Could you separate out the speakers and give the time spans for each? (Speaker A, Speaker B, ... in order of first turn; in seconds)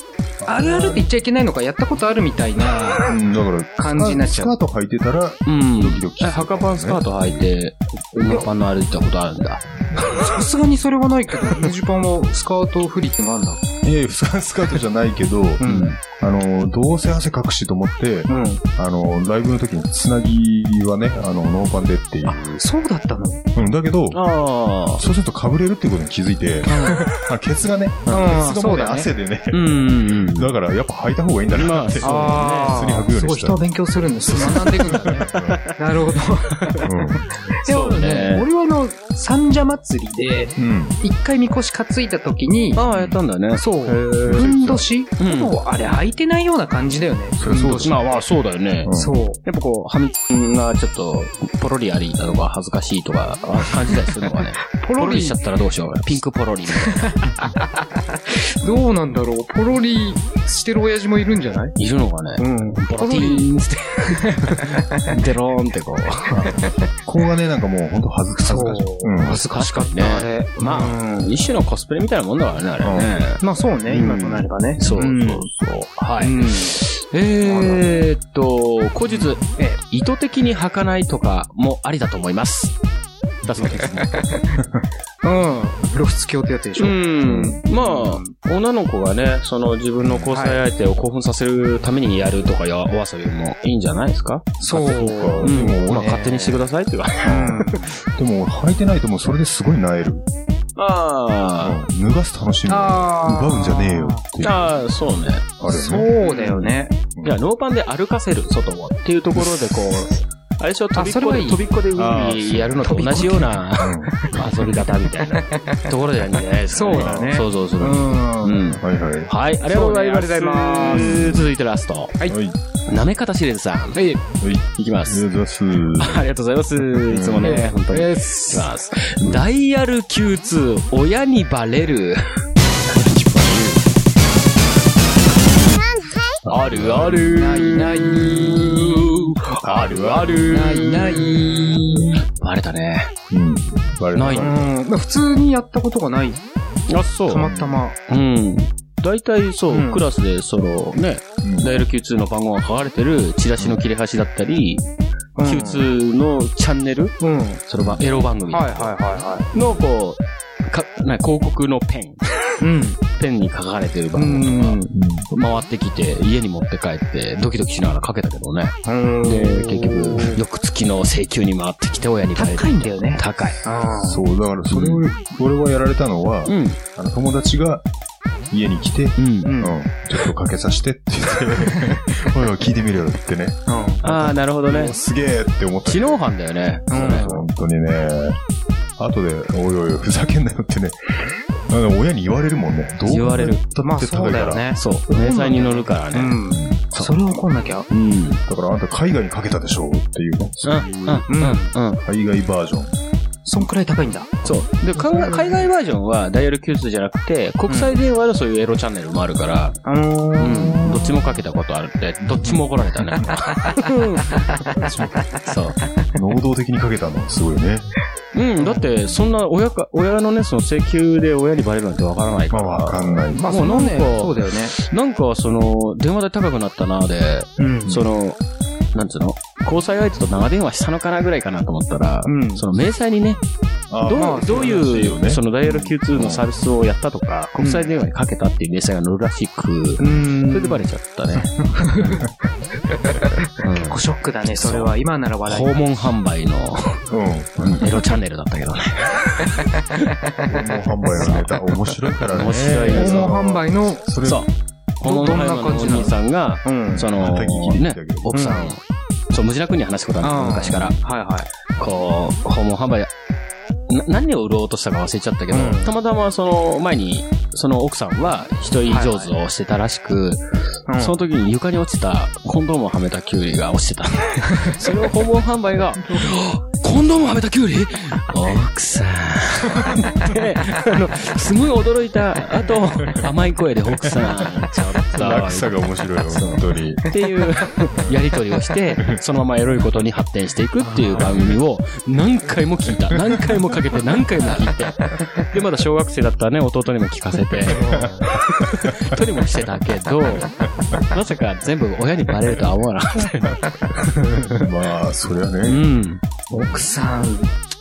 Speaker A: 0.4-1.1, 3.0-7.5, 13.8-22.6, 23.5-24.2, 25.0-33.6, 34.3-35.6, 36.8-37.3, 40.6-41.0, 42.9-43.2, 44.2-44.9, 47.4-48.1, 48.9-49.2, 66.3-69.4, 72.8-73.1, 87.3-87.5, 90.0-90.3, 94.7-96.1, 97.2-100.2, 101.6-104.8, 105.6-106.1, 109.4-109.7, 112.0-113.0, 113.8-114.3, 116.9-117.3, 118.8-119.3, 120.8-121.5, 122.3-122.6, 124.4-126.2, 127.0-127.6, 132.9-134.0, 136.4-137.5, 139.6-140.6, 143.3-144.7, 147.4-147.8, 151.4-151.7, 157.8-158.1, 164.9-165.3, 174.0-177.9, 178.5-186.3, 186.9-188.4, 189.0-194.7, 196.5-196.8, 198.5-201.3, 202.0-203.0, 212.3-212.6, 214.8-215.2, 216.1-217.9, 222.5-223.5, 233.9-235.4, 236.1-236.4, 242.1-242.3, 247.1-247.8, 250.5-254.5, 256.9-258.6, 285.1-287.1, 293.1-293.6, 297.7-298.9, 304.4-305.9
Speaker B: 0.5-3.1, 3.8-4.5, 10.0-13.6, 15.6-15.9, 18.3-18.6, 22.3-23.4, 26.7-27.1, 28.1-29.1, 32.0-42.8, 43.5-48.1, 48.9-49.4, 54.7-55.4, 56.9-61.7, 62.4-63.5, 64.3-65.1, 68.5-71.3, 73.4-75.5, 76.2-76.8, 77.4-77.9, 83.6-84.6, 85.2-88.3, 90.3-90.6, 94.6-96.6, 97.2-97.9, 102.7-104.2, 105.7-106.9, 111.0-111.6, 112.8-113.7, 115.5-115.8, 116.7-118.8, 119.7-121.2, 124.0-124.2, 127.4-128.7, 137.3-139.1, 140.5-142.1, 144.4-146.4, 147.3-148.0, 149.7-150.0, 155.4-155.8, 157.2-157.6, 158.5-159.5, 162.6-163.0, 164.2-164.9, 168.9-170.4, 172.4-175.0, 179.4-179.8, 183.7-184.0, 186.9-187.5, 193.8-197.9, 201.3-201.7, 203.5-204.4, 205.0-205.4, 207.7-208.0, 209.8-211.1, 223.3-224.7, 227.6-228.0, 232.3-232.6, 234.1-234.8, 235.7-235.9, 237.6-237.9, 240.0-240.8, 241.7-242.2, 243.1-245.8, 252.7-254.0, 255.0-257.1, 258.3-258.7, 260.2-261.5, 265.5-265.9, 268.9-269.3, 270.9-271.2, 290.8-291.5, 297.7-298.4, 306.5-307.5
Speaker C: 5.5-10.3, 15.6-16.0, 24.1-25.0, 29.5-30.5, 31.5-32.9, 34.3-35.7, 37.7-38.5, 42.8-44.5, 45.2-45.5, 47.8-57.1, 61.8-66.4, 69.5-82.7, 83.4-84.2, 86.8-97.7, 100.8-101.8, 104.4-105.5, 106.2-106.7, 107.2-122.2, 122.9-124.0, 124.8-125.3, 126.0-132.4, 136.5-141.4, 142.4-143.1, 144.2-144.5, 146.9-147.5, 148.1-154.9, 155.4-159.0, 159.5-162.6, 163.2-173.6, 176.4-176.8, 179.2-179.6, 184.0-185.0, 185.9-187.3, 193.1-193.6, 194.7-196.4, 197.9-198.4, 200.6-202.0, 204.4-209.8, 210.4-214.5, 215.4-215.8, 218.3-228.4, 228.9-233.4, 234.0-241.5, 243.6-244.0, 244.6-244.9, 245.5-247.1, 247.6-250.1, 252.3-253.3, 254.2-261.0, 261.8-263.1, 263.9-270.4, 271.0-304.6, 305.6-306.2